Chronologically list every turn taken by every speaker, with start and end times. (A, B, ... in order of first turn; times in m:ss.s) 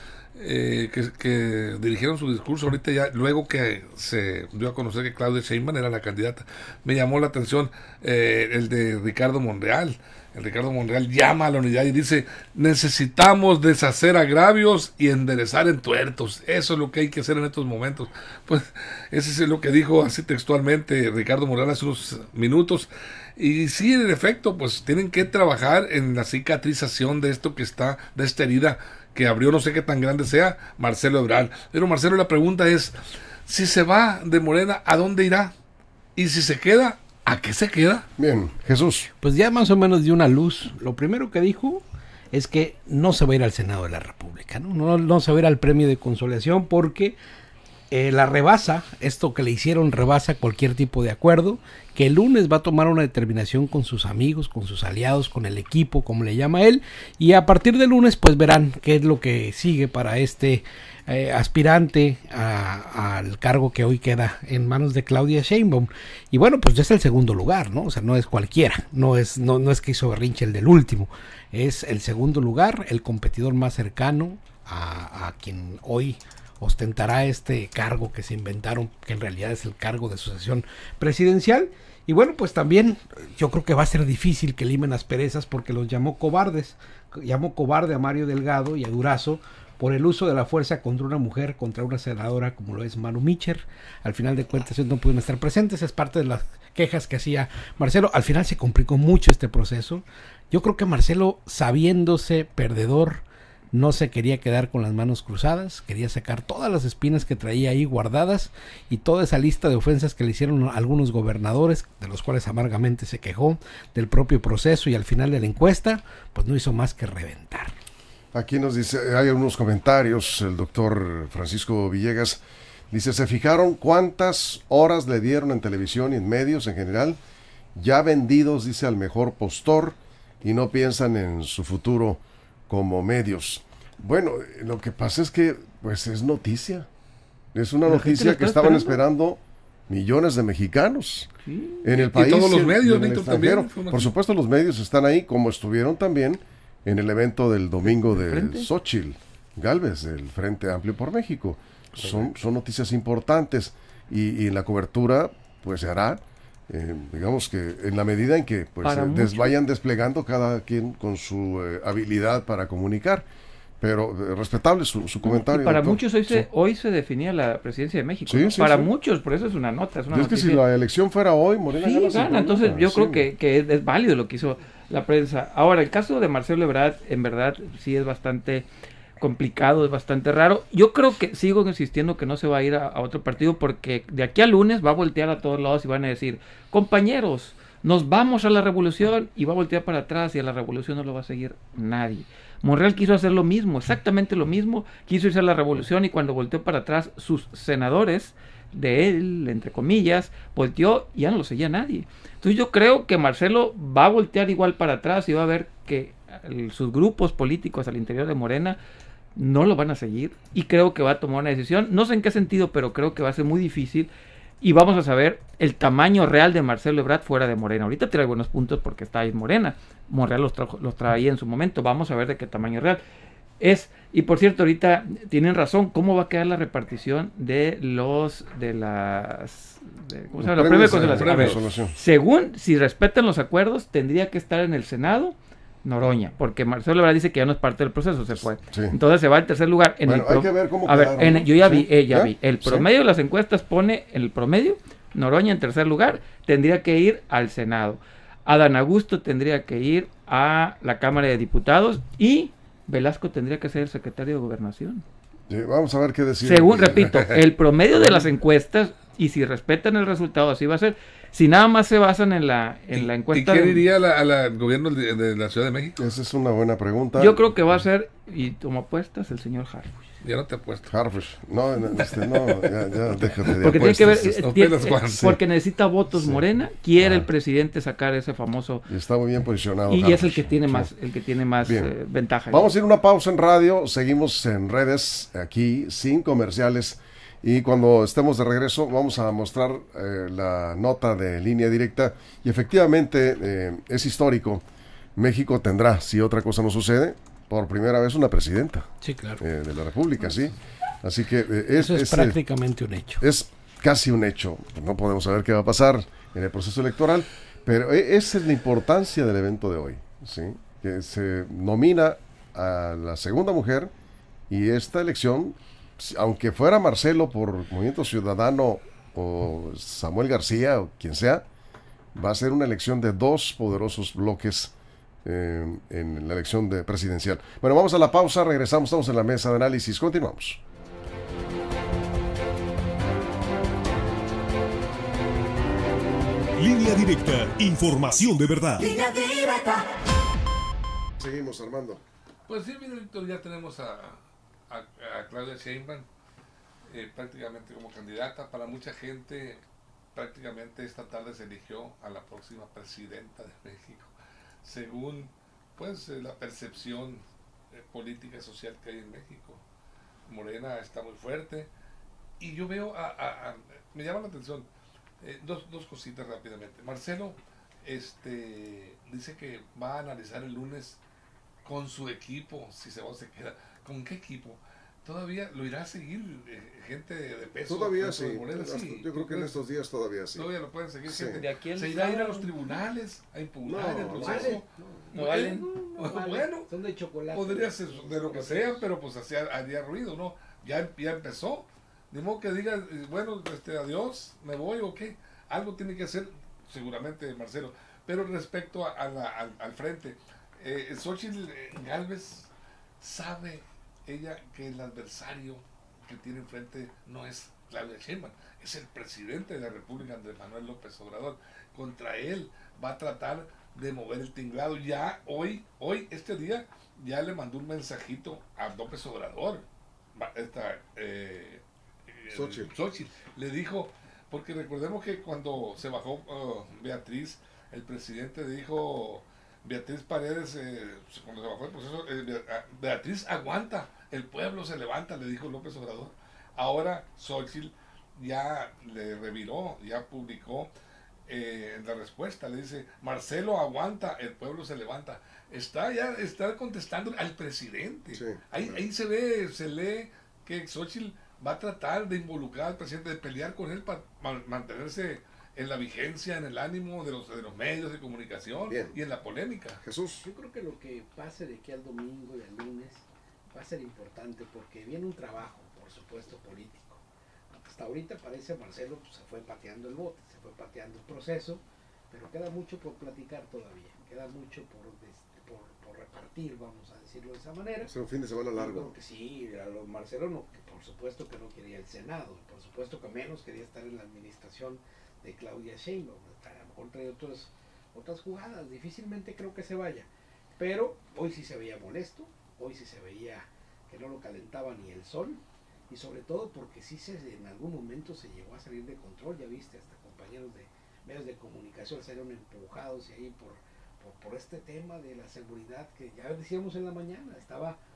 0:00.4-0:35.6 A
0:36.2-0:38.1 A
0:38.2-0:39.1 B
0:39.2-0:47.2 C
0:47.9-1:57.7 C
1:58.3-2:07.2 B
2:07.8-2:16.9 B
2:17.5-2:21.3 B
2:17.9-2:19.0 D
2:21.5-2:21.8 D
2:21.8-2:43.3 B
2:21.9-2:24.1 A
2:28.2-2:28.7 D
2:38.8-2:39.6 D
2:43.8-2:46.5 B
2:45.2-2:50.6 D
2:48.3-2:48.9 B
2:50.1-2:53.3 B
2:51.7-2:58.7 D
2:59.2-3:28.8 D
3:29.4-3:34.1 D
3:34.6-3:43.0 D
3:43.6-4:15.0 D
3:50.4-3:52.0 B
3:51.0-3:51.7 A
3:58.7-3:59.0 B
4:00.0-4:02.9 B
4:15.5-4:17.1 B
4:16.4-4:23.8 D
4:17.1-4:17.4 A
4:22.9-4:26.0 A
4:26.0-4:27.5 B
4:27.2-4:30.0 D
4:30.2-4:30.9 A
4:30.9-4:34.2 B
4:32.1-4:35.2 A
4:33.6-4:38.9 D
4:35.1-4:35.4 B
4:36.2-4:36.4 B
4:37.0-4:37.3 B
4:38.9-4:40.9 B
4:39.9-4:42.7 D
4:41.6-4:41.9 B
4:42.5-4:54.6 B
4:55.2-4:58.9 B
4:59.0-4:59.4 C
4:59.4-5:02.4 B
5:00.2-5:00.5 C
5:01.8-5:03.2 C
5:03.2-5:13.9 B
5:14.5-5:21.4 B
5:22.1-5:30.6 B
5:36.6-5:39.6 E
5:41.2-5:42.0 B
5:42.5-5:46.1 A
5:46.9-5:49.6 A
5:50.2-5:59.6 A
6:00.3-6:01.7 A
6:02.4-6:04.7 A
6:05.2-6:11.0 A
6:11.6-6:19.6 A
6:17.7-6:20.5 B
6:20.4-6:26.7 A
6:21.1-6:21.4 B
6:21.3-6:22.5 D
6:23.6-6:25.1 B
6:23.8-6:24.6 C
6:25.1-6:25.8 D
6:25.6-6:28.8 C
6:27.3-7:20.7 A
7:02.3-7:02.7 B
7:21.3-7:39.8 A
7:28.1-7:28.8 B
7:38.7-7:39.0 B
7:39.8-7:40.2 B
7:40.2-7:57.9 C
7:57.8-7:59.0 B
7:58.6-8:27.8 C